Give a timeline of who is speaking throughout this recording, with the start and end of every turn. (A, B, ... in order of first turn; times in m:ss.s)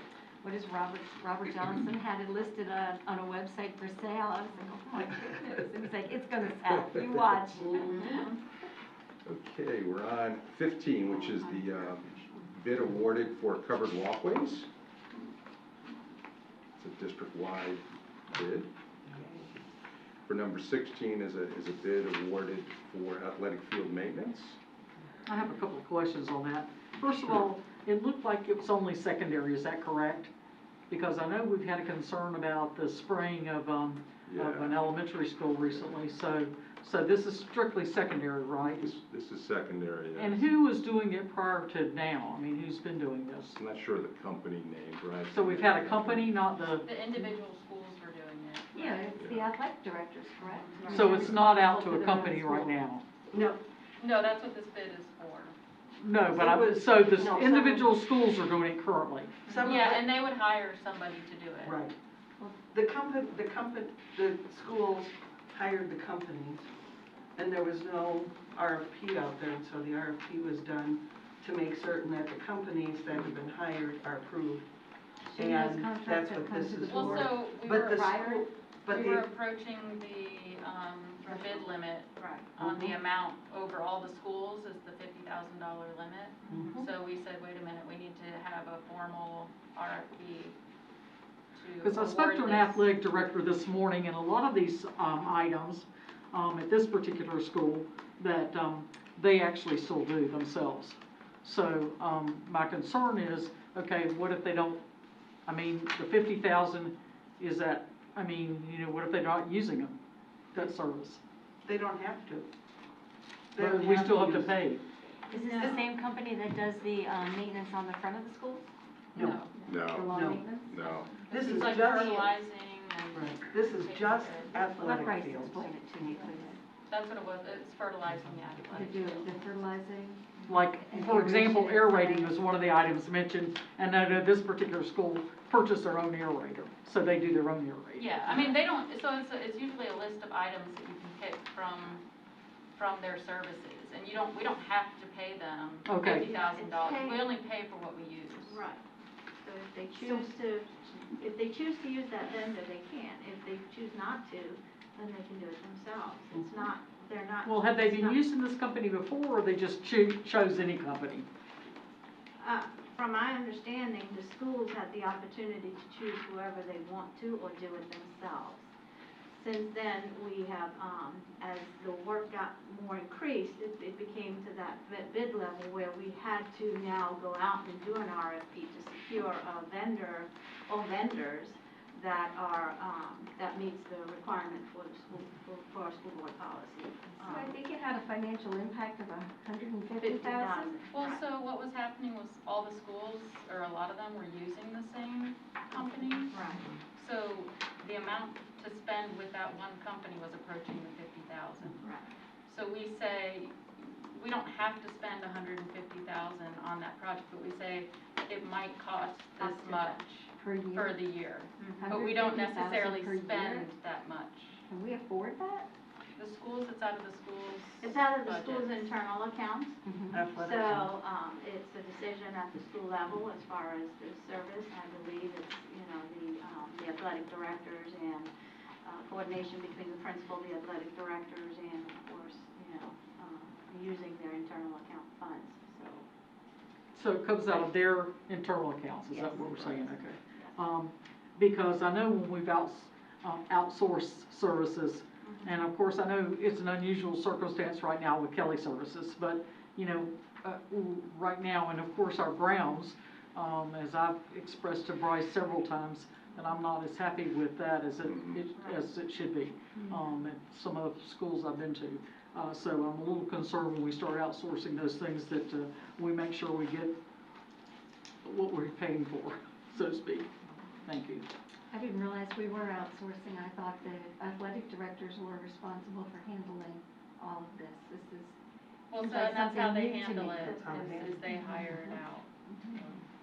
0:00.4-0:08.2 A
0:07.9-0:08.3 B
0:09.2-0:14.7 C
0:16.8-0:18.7 C
0:19.0-0:19.5 D
0:20.3-0:24.6 C
0:25.3-0:30.3 E
0:30.9-0:38.9 E
0:34.3-0:34.9 C
0:38.6-0:40.4 C
0:40.2-0:43.6 E
0:43.5-0:46.3 C
0:45.3-0:46.9 E
0:46.6-0:49.1 F
0:48.7-0:52.8 A
0:49.2-0:49.5 C
0:50.4-0:51.3 B
0:50.9-0:53.0 E
0:53.3-0:53.6 D
0:54.0-0:55.6 F
0:56.0-0:59.4 E
0:56.2-0:58.0 D
0:59.4-1:00.1 D
0:59.6-1:01.8 F
1:01.6-1:02.0 D
1:02.7-1:06.7 D
1:07.4-1:14.7 D
1:15.3-1:17.4 A
1:15.3-1:19.2 D
1:16.9-1:30.6 F
1:18.0-1:18.3 A
1:21.2-1:22.5 B
1:22.6-1:23.0 D
1:26.4-1:26.8 B
1:26.5-1:26.8 D
1:31.6-1:32.9 F
1:31.8-1:44.8 E
1:45.4-1:50.0 E
1:50.5-1:51.2 E
1:51.6-1:52.5 D
1:53.5-1:54.6 D
1:53.6-1:54.8 E
1:55.3-2:02.1 A
1:55.3-1:55.8 B
1:59.1-1:59.4 D
1:59.2-1:59.5 F
1:59.7-2:01.1 C
2:00.1-2:00.4 D
2:01.3-2:02.4 D
2:01.3-2:04.6 F
2:03.1-2:06.5 D
2:04.7-2:06.6 A
2:06.9-2:09.3 F
2:08.7-2:12.3 A
2:10.5-2:18.2 E
2:18.0-2:22.0 F
2:22.8-2:28.6 F
2:25.8-2:26.3 E
2:26.0-2:27.3 B
2:28.4-2:28.8 B
2:29.4-2:38.2 B
2:29.9-2:30.3 A
2:36.3-2:36.7 D
2:37.4-2:41.2 E
2:42.4-2:48.7 B
2:49.3-3:07.5 B
3:07.2-3:10.7 A
3:10.0-3:11.2 B
3:10.9-3:16.3 F
3:15.7-3:16.6 B
3:16.9-3:21.8 F
3:21.8-3:22.1 B
3:22.5-3:34.6 F
3:29.4-3:30.0 B
3:30.4-3:31.0 A
3:31.6-3:32.0 B
3:31.8-3:33.7 A
3:34.7-3:35.7 A
3:36.2-3:38.9 F
3:37.8-3:39.8 B
3:39.8-3:40.2 A
3:40.1-3:41.0 D
3:40.3-3:48.3 B
3:48.8-3:56.0 B
3:56.9-4:27.0 E
3:59.1-4:00.6 B
4:05.2-4:05.6 B
4:18.0-4:18.4 C
4:18.5-4:18.8 B
4:19.8-4:20.2 A
4:28.2-4:30.3 E
4:30.8-4:31.3 E
4:31.7-4:38.4 A
4:38.9-4:42.3 F
4:39.0-4:42.9 A
4:40.4-4:41.2 D